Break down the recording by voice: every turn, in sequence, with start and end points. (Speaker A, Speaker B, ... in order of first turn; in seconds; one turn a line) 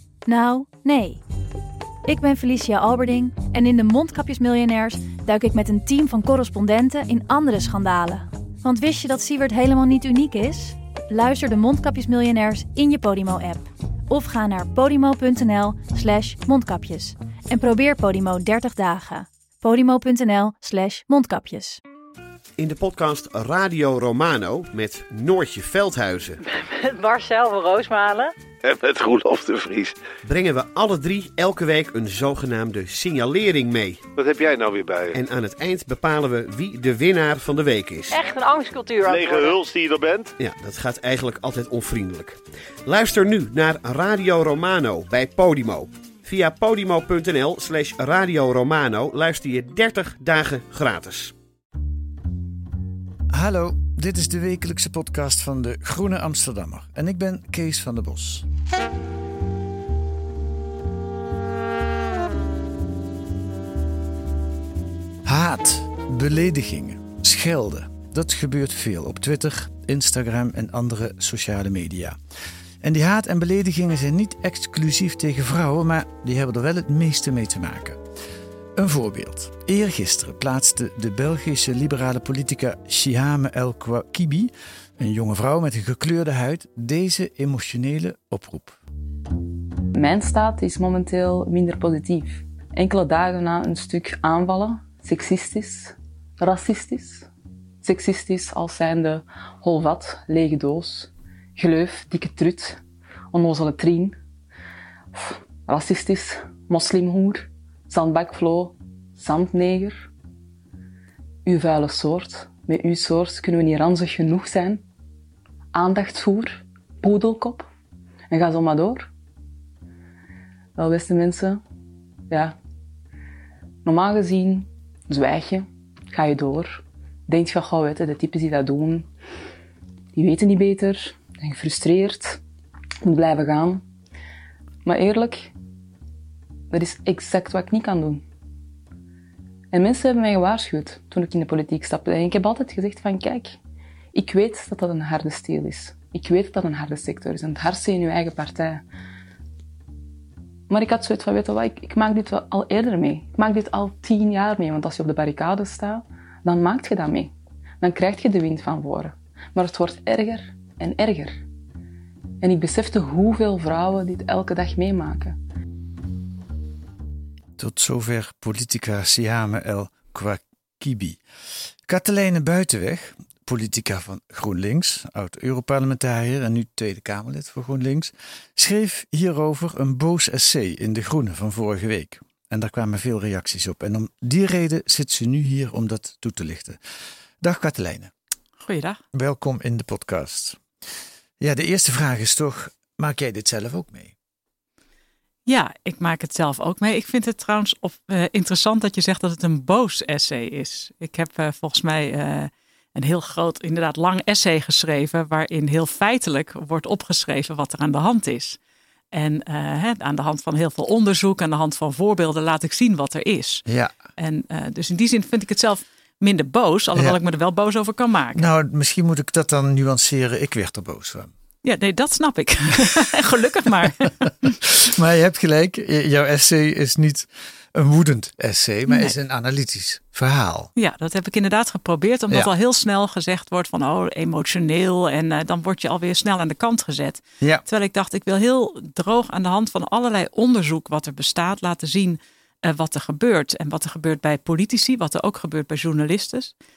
Speaker A: 0.3-1.2
Speaker A: 2.1-21.8
Speaker B: 22.6-26.4
Speaker C: 26.4-28.3
Speaker D: 28.6-30.0
Speaker B: 30.2-34.0
Speaker D: 34.1-35.2
Speaker B: 35.1-38.2
Speaker C: 38.1-39.6
Speaker D: 39.0-40.3
Speaker B: 40.4-51.3
Speaker E: 53.3-58.5
Speaker E: 65.2-72.2
Speaker E: 72.8-78.0
Speaker E: 78.8-88.8
Speaker F: 89.9-97.3
Speaker F: 97.8-102.8
Speaker F: 103.3-104.2
Speaker F: 105.1-110.1
Speaker F: 111.5-114.8
Speaker F: 115.7-117.7
Speaker F: 118.3-119.1
Speaker F: 120.8-121.6
Speaker F: 122.3-122.6
Speaker F: 123.8-129.1
Speaker F: 130.2-132.4
Speaker F: 133.0-133.8
Speaker F: 134.8-135.5
Speaker F: 136.7-138.2
Speaker F: 139.7-143.6
Speaker F: 144.1-148.8
Speaker F: 150.7-161.4
Speaker F: 162.4-165.4
Speaker E: 167.6-171.2
Speaker E: 171.8-186.8
Speaker E: 187.4-188.1
Speaker G: 188.6-189.0
Speaker E: 189.1-190.6
Speaker E: 191.4-194.2
Speaker G: 195.5-208.6
Speaker G: 209.1-213.7
Speaker E: 213.7-213.9
Speaker G: 214.2-218.5
Speaker E: 218.3-221.3
Speaker G: 221.6-224.6
Speaker E: 224.6-230.7
Speaker G: 228.9-229.1
Speaker G: 230.8-246.5